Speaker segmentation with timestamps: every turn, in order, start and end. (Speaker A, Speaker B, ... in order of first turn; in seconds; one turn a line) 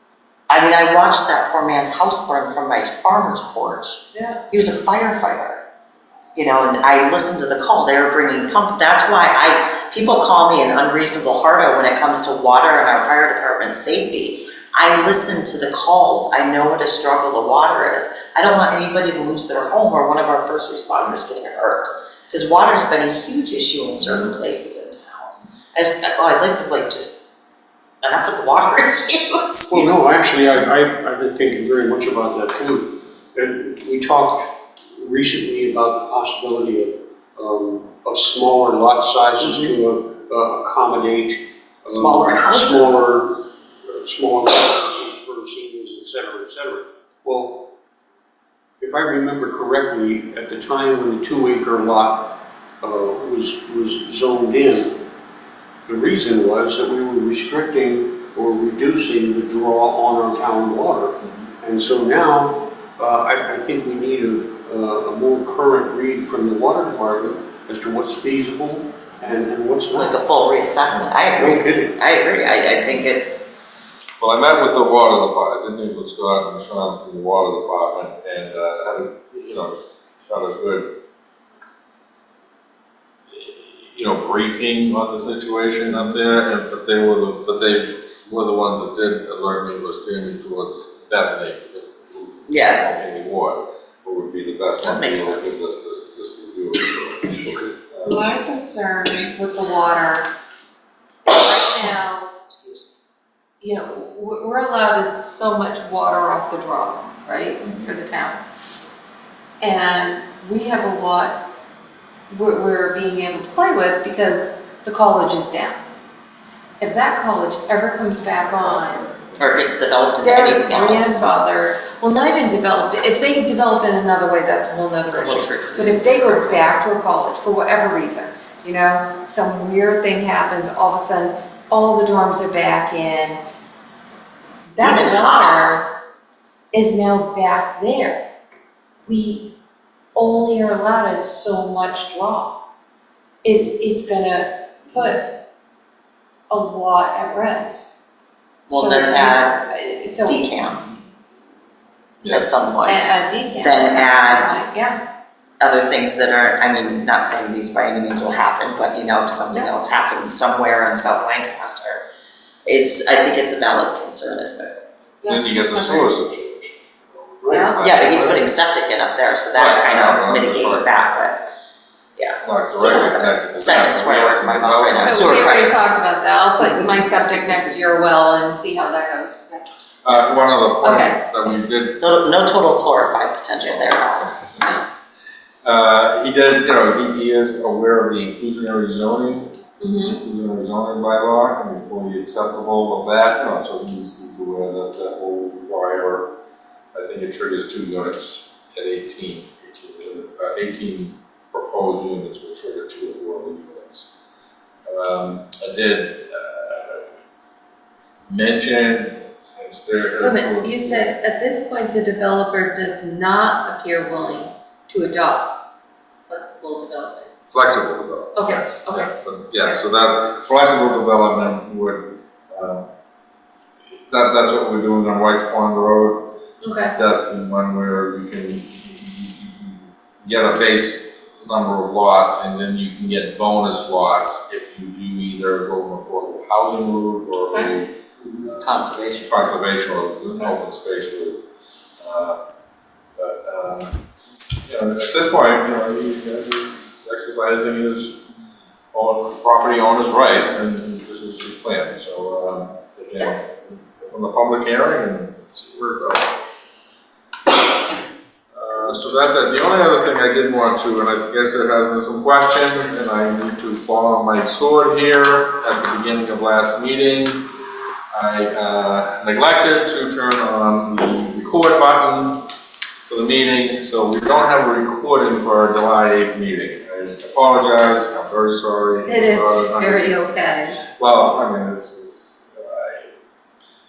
Speaker A: 0.5-5.6
Speaker B: 4.1-4.4
Speaker A: 6.3-27.2
Speaker A: 28.0-29.9
Speaker C: 29.7-43.3
Speaker A: 39.4-39.8
Speaker A: 41.9-43.0
Speaker C: 43.9-47.6
Speaker C: 48.8-52.3
Speaker C: 52.8-55.0
Speaker C: 55.9-70.2
Speaker A: 69.9-73.5
Speaker C: 71.4-71.9
Speaker D: 74.2-79.7
Speaker D: 80.2-80.9
Speaker D: 83.3-98.2
Speaker A: 92.5-92.9
Speaker A: 94.8-95.7
Speaker C: 97.4-97.7
Speaker B: 98.0-100.3
Speaker B: 101.2-102.3
Speaker B: 103.6-108.4
Speaker B: 109.6-111.4
Speaker B: 112.3-115.8
Speaker B: 116.8-119.1
Speaker A: 119.4-121.3
Speaker B: 120.2-133.4
Speaker A: 125.1-126.8
Speaker B: 134.7-135.9
Speaker A: 134.8-135.8
Speaker B: 136.7-138.2
Speaker B: 139.1-139.5
Speaker B: 140.1-142.5
Speaker B: 143.4-145.3
Speaker B: 146.5-147.9
Speaker A: 148.7-149.6
Speaker B: 148.7-150.6
Speaker A: 150.2-150.8
Speaker D: 152.2-152.5
Speaker A: 152.3-153.0
Speaker B: 152.8-155.0
Speaker A: 153.6-154.5
Speaker A: 155.6-162.0
Speaker A: 162.6-164.8
Speaker B: 165.2-166.1
Speaker D: 165.3-168.5
Speaker B: 167.5-167.8
Speaker A: 167.8-171.4
Speaker D: 169.5-170.9
Speaker A: 172.2-175.9
Speaker D: 172.4-175.7
Speaker B: 175.0-179.6
Speaker D: 180.0-182.0
Speaker B: 180.8-181.5
Speaker A: 182.0-184.3
Speaker D: 183.6-184.6
Speaker D: 185.6-189.5
Speaker B: 189.8-190.2
Speaker D: 190.0-196.3
Speaker D: 196.9-204.1
Speaker D: 204.9-207.1
Speaker D: 208.3-211.1
Speaker B: 210.2-215.5
Speaker B: 216.3-217.3
Speaker D: 217.5-222.8
Speaker B: 218.3-219.8
Speaker D: 224.1-226.3
Speaker B: 226.6-226.9
Speaker D: 226.9-238.7
Speaker A: 238.6-239.3
Speaker D: 239.2-241.4
Speaker B: 240.2-240.5
Speaker D: 242.0-242.4
Speaker D: 243.2-243.9
Speaker D: 244.7-248.2
Speaker D: 248.9-256.4
Speaker D: 258.5-267.4
Speaker D: 268.1-272.4
Speaker D: 273.1-280.1
Speaker B: 279.0-280.8
Speaker D: 280.9-283.1